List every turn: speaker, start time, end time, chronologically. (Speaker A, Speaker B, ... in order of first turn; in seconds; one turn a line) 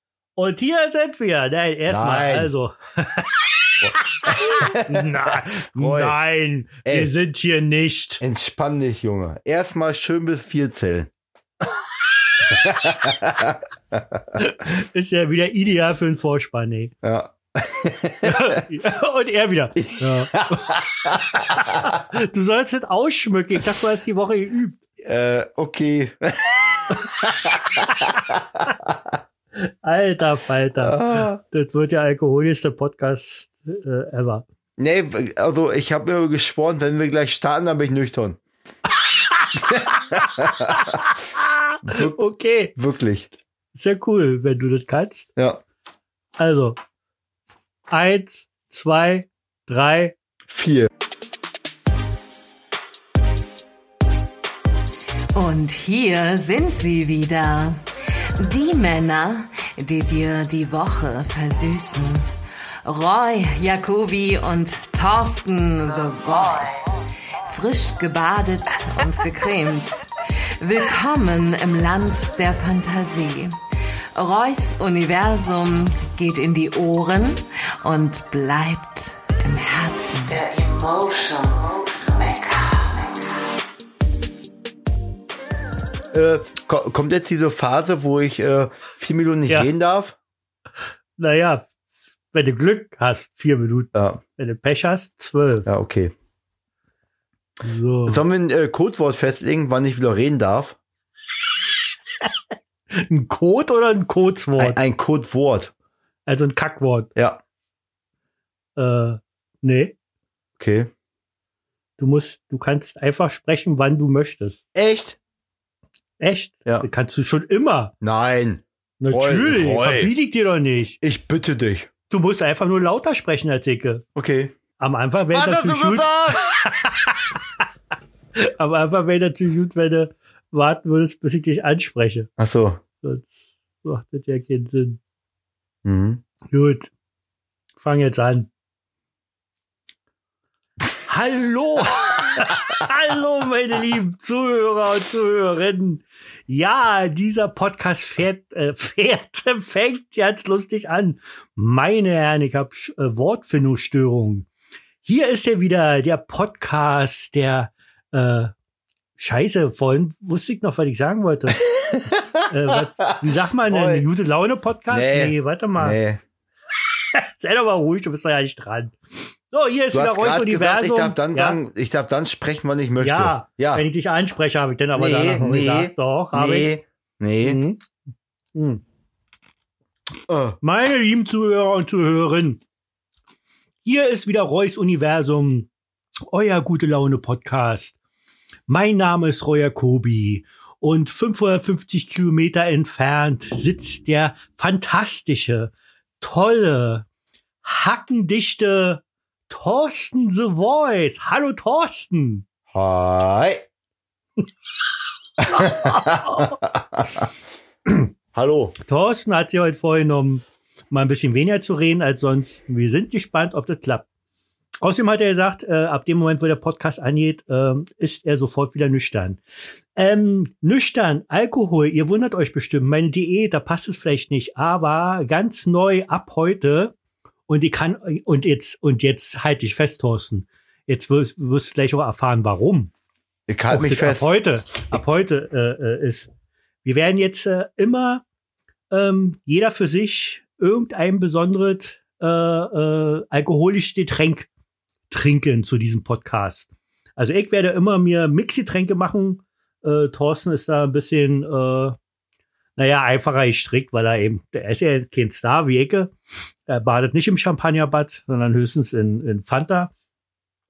Speaker A: 0.3-8.2
Speaker B: 1.9-2.5
Speaker B: 3.8-6.2
Speaker B: 6.8-7.1
Speaker B: 8.2-11.1
Speaker B: 12.4-14.4
Speaker A: 14.3-16.9
Speaker B: 17.0-18.6
Speaker A: 18.2-24.8
Speaker B: 19.8-21.9
Speaker B: 25.0-29.1
Speaker A: 29.6-34.4
Speaker B: 30.8-31.4
Speaker B: 34.8-38.4
Speaker A: 39.1-42.7
Speaker B: 39.7-40.9
Speaker B: 41.8-42.2
Speaker B: 42.8-43.3
Speaker A: 43.7-45.3
Speaker A: 46.4-46.8
Speaker A: 47.9-50.2
Speaker B: 50.5-50.9
Speaker C: 55.3-57.8
Speaker C: 58.4-62.3
Speaker C: 62.8-73.6
Speaker C: 74.1-83.2
Speaker B: 86.1-90.2
Speaker A: 91.2-91.8
Speaker A: 92.3-95.7
Speaker B: 93.9-94.2
Speaker B: 95.7-96.1
Speaker A: 97.6-98.2
Speaker B: 98.0-100.8
Speaker A: 102.9-104.8
Speaker B: 104.6-105.7
Speaker A: 106.2-107.1
Speaker A: 108.8-109.9
Speaker B: 110.6-110.9
Speaker A: 112.0-114.6
Speaker B: 114.7-115.2
Speaker A: 116.2-117.9
Speaker B: 118.0-120.1
Speaker A: 119.0-121.0
Speaker B: 121.0-121.9
Speaker A: 122.1-124.0
Speaker B: 124.2-124.5
Speaker A: 124.8-127.6
Speaker B: 125.3-126.4
Speaker A: 128.3-132.3
Speaker B: 132.4-132.8
Speaker A: 133.0-135.0
Speaker B: 135.8-136.2
Speaker A: 136.5-136.9
Speaker A: 137.8-138.5
Speaker A: 141.1-154.5
Speaker A: 155.0-158.5
Speaker A: 159.2-161.6
Speaker B: 161.7-163.1
Speaker A: 162.5-166.0
Speaker B: 163.7-164.0
Speaker B: 164.9-166.2
Speaker A: 167.0-168.9
Speaker A: 169.5-171.6
Speaker B: 169.9-173.8
Speaker A: 173.0-176.7
Speaker B: 174.9-177.6
Speaker A: 177.4-177.8
Speaker A: 178.5-178.8
Speaker B: 180.3-180.6
Speaker A: 180.6-182.6
Speaker A: 183.8-185.7
Speaker A: 186.3-188.0
Speaker A: 188.7-197.1
Speaker A: 197.6-202.4
Speaker B: 202.7-203.6
Speaker B: 205.4-207.3
Speaker A: 205.5-206.5
Speaker B: 208.3-208.8
Speaker A: 208.8-214.1
Speaker A: 214.8-219.4
Speaker A: 219.9-226.9
Speaker A: 227.5-232.9
Speaker B: 233.5-234.3
Speaker A: 233.7-236.3
Speaker A: 236.8-238.2
Speaker A: 238.9-244.5
Speaker A: 245.1-251.9
Speaker A: 252.8-256.1
Speaker A: 256.7-259.9